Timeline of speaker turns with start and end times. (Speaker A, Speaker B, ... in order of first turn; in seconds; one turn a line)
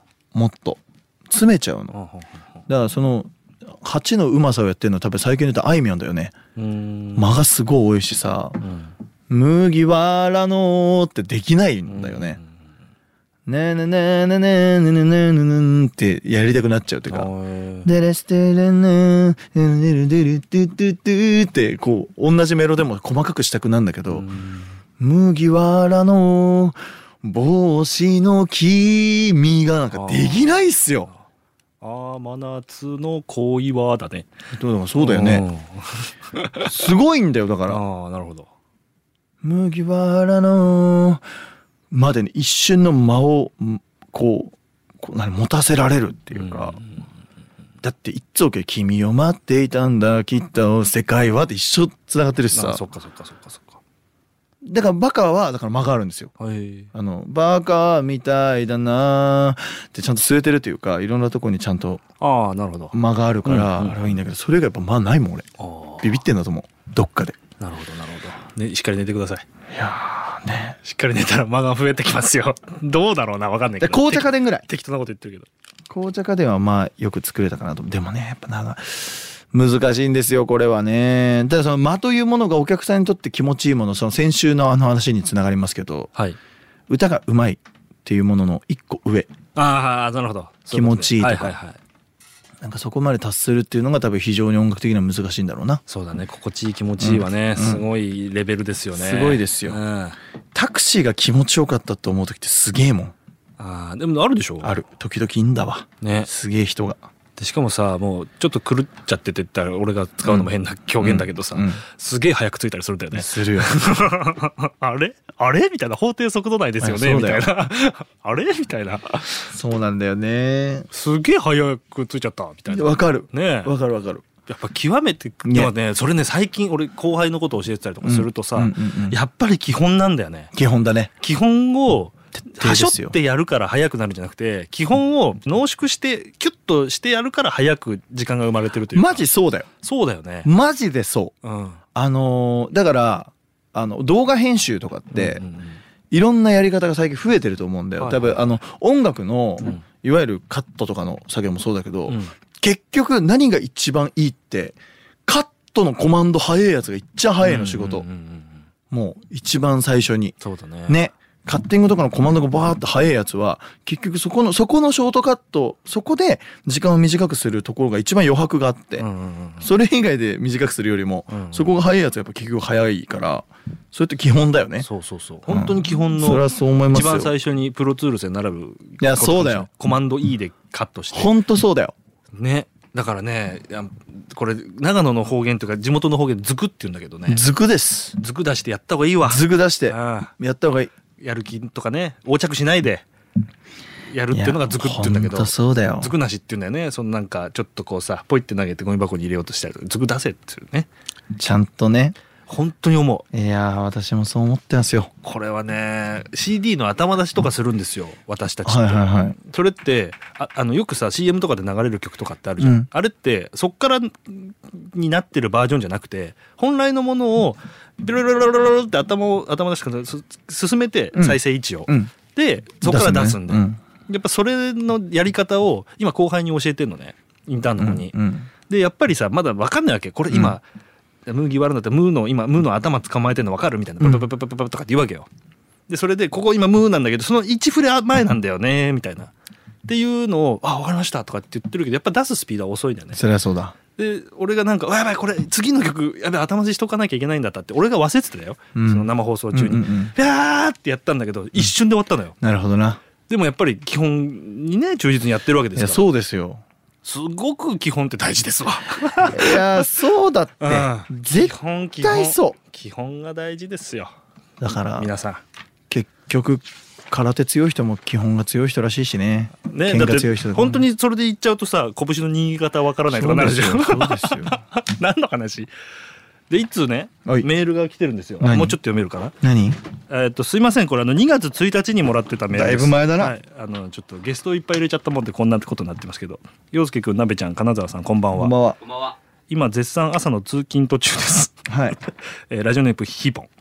Speaker A: 0.3-1.9
Speaker B: 1.9-2.5
Speaker A: 2.7-6.3
Speaker B: 6.5-7.4
Speaker A: 7.1-8.6
Speaker B: 8.6-8.9
Speaker A: 9.3-12.4
Speaker B: 11.9-12.5
Speaker A: 13.5-17.3
Speaker B: 17.1-17.9
Speaker A: 17.8-24.3
Speaker B: 24.1-24.7
Speaker A: 25.0-31.1
Speaker B: 29.9-31.2
Speaker B: 31.8-34.3
Speaker A: 34.5-35.5
Speaker B: 35.0-36.9
Speaker A: 36.5-37.8
Speaker B: 37.7-38.5
Speaker A: 39.4-41.3
Speaker A: 41.9-46.8
Speaker B: 46.3-47.1
Speaker A: 47.8-52.9
Speaker B: 52.5-53.8
Speaker A: 54.6-56.3
Speaker B: 56.4-56.9
Speaker A: 56.9-62.0
Speaker B: 62.2-64.0
Speaker A: 62.9-65.5
Speaker B: 65.6-66.2
Speaker A: 66.0-67.4
Speaker B: 67.6-69.5
Speaker A: 69.7-70.8
Speaker B: 70.8-75.5
Speaker A: 73.8-74.7
Speaker A: 75.9-86.1
Speaker A: 86.9-89.3
Speaker B: 89.5-91.8
Speaker A: 90.7-91.6
Speaker A: 92.6-95.8
Speaker B: 95.9-100.2
Speaker A: 97.0-97.8
Speaker A: 98.9-99.8
Speaker A: 100.5-103.1
Speaker B: 103.6-104.8
Speaker A: 104.6-107.0
Speaker B: 106.0-106.3
Speaker B: 107.3-119.5
Speaker A: 110.2-111.8
Speaker A: 113.1-113.8
Speaker A: 116.8-117.5
Speaker A: 119.5-120.9
Speaker B: 120.9-123.7
Speaker A: 122.7-124.2
Speaker B: 124.5-130.5
Speaker A: 125.4-125.7
Speaker A: 128.0-129.2
Speaker A: 130.5-131.1
Speaker B: 131.2-139.3
Speaker A: 132.3-133.2
Speaker A: 138.9-139.7
Speaker B: 139.8-140.5
Speaker A: 140.4-141.3
Speaker B: 141.4-141.8
Speaker A: 141.9-145.4
Speaker B: 145.1-145.8
Speaker A: 146.1-158.0
Speaker B: 148.0-148.4
Speaker B: 152.1-152.3
Speaker B: 157.4-158.6
Speaker A: 158.9-169.1
Speaker B: 160.4-161.0
Speaker B: 169.0-169.7
Speaker A: 169.6-174.9
Speaker B: 171.3-171.8
Speaker B: 174.8-181.3
Speaker A: 175.5-177.3
Speaker A: 179.0-179.7
Speaker A: 181.1-181.9
Speaker B: 182.3-187.4
Speaker A: 187.3-188.2
Speaker B: 188.2-190.3
Speaker A: 189.2-190.9
Speaker B: 191.2-193.0
Speaker B: 194.1-200.9
Speaker A: 194.3-196.1
Speaker A: 201.4-202.2
Speaker B: 202.5-203.3
Speaker A: 203.3-205.1
Speaker B: 205.2-228.2
Speaker A: 208.6-209.4
Speaker A: 212.6-212.9
Speaker A: 221.1-222.1
Speaker A: 222.8-223.8
Speaker A: 227.8-228.5
Speaker B: 228.7-230.6
Speaker A: 230.3-230.6
Speaker B: 231.2-235.3
Speaker A: 234.0-234.3
Speaker B: 235.9-239.3
Speaker B: 239.8-243.2
Speaker A: 243.1-243.8
Speaker B: 243.9-252.4
Speaker A: 248.7-250.1
Speaker A: 252.4-253.0
Speaker B: 253.3-256.0
Speaker A: 255.7-256.6
Speaker B: 257.0-259.9
Speaker A: 259.2-262.6
Speaker B: 260.6-264.1
Speaker A: 264.6-265.1
Speaker B: 265.0-265.4
Speaker A: 265.9-270.9
Speaker B: 269.7-275.7
Speaker A: 273.1-274.6
Speaker B: 276.5-279.4
Speaker A: 278.4-278.8
Speaker A: 279.4-279.8
Speaker B: 280.1-291.7
Speaker A: 282.5-283.4
Speaker A: 288.3-288.8
Speaker A: 291.7-292.0
Speaker B: 292.5-293.5